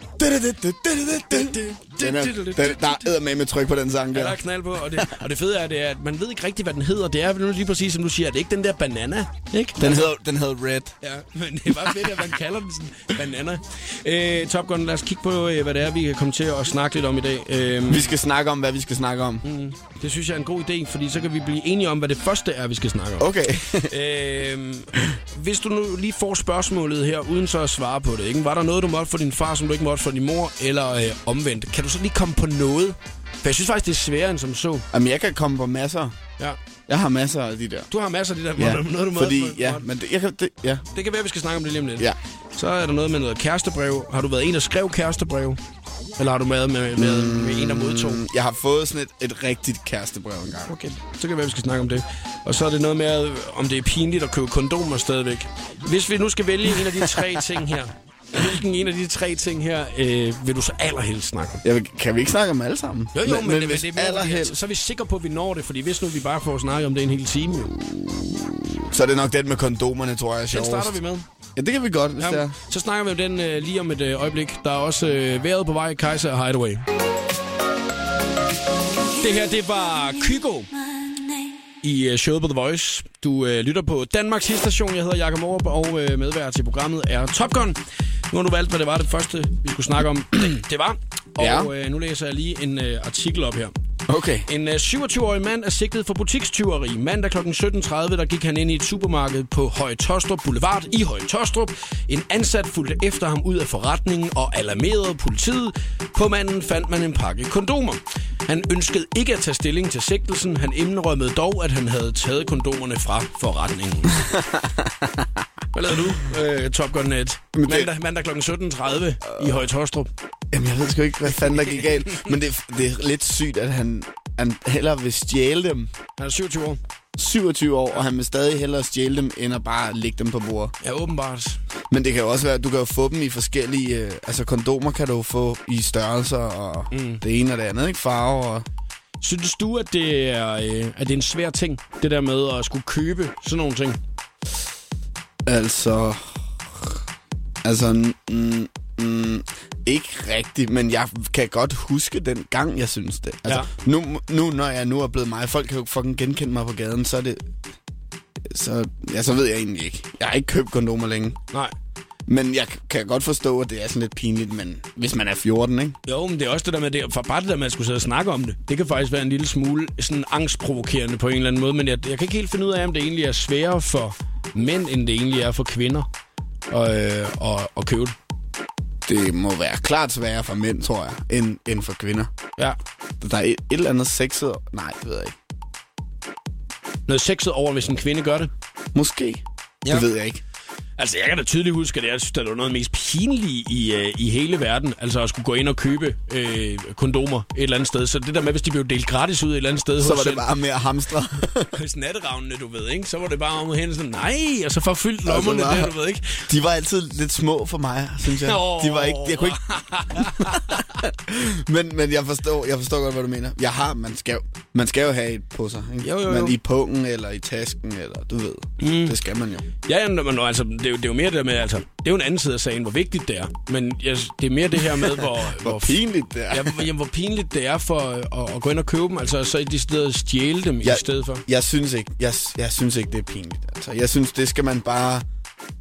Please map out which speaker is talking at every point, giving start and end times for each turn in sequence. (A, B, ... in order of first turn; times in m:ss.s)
0:00.2-0:04.4 A
0:01.4-0:03.1 B
0:04.1-0:10.1 B
0:09.8-0:11.0 A
0:11.0-0:18.1 B
0:11.8-0:12.2 A
0:17.9-0:19.4 A
0:19.4-0:34.9 B
0:23.2-0:23.9 A
0:34.9-0:36.2 A
0:36.9-0:37.9 A
0:37.9-0:39.8 B
0:38.6-0:40.8 A
0:40.9-0:45.6 B
0:46.2-0:48.2 B
0:47.0-0:50.8 A
0:50.7-1:01.6 B
0:56.8-0:57.4 A
1:01.6-1:04.6 A
1:03.1-1:07.7 B
1:07.8-1:11.0 A
1:10.5-1:11.3 B
1:11.6-1:12.6 A
1:12.2-1:16.8 B
1:19.2-1:20.7 B
1:21.8-1:27.8 B
1:28.3-1:33.7 B
1:31.4-1:31.7 A
1:34.1-1:34.5 A
1:34.5-1:54.2 B
1:54.2-1:55.4 A
1:55.7-2:00.1 B
1:57.6-1:57.9 A
1:59.2-1:59.6 A
2:00.5-2:05.9 A
2:06.2-2:06.8 B
2:07.2-2:10.7 A
2:10.8-2:11.6 B
2:11.9-2:18.7 A
2:16.9-2:17.2 B
2:19.2-2:24.0 B
2:25.5-2:27.0 A
2:27.6-2:37.5 A
2:38.4-2:41.4 A
2:42.3-2:46.0 A
2:46.1-2:56.1 B
2:56.7-2:58.2 B
2:59.1-3:02.3 A
3:03.2-3:05.4 A
3:07.1-3:08.5 B
3:08.9-3:10.4 A
3:11.0-3:20.4 B
3:20.0-3:21.8 A
3:21.7-3:26.5 B
3:25.2-3:25.9 A
3:26.5-3:39.7 A
3:28.3-3:31.0 B
3:36.0-3:36.6 B
3:38.8-3:39.2 B
3:39.8-3:46.0 B
3:45.0-3:46.8 A
3:46.5-3:51.4 B
3:50.8-3:55.3 A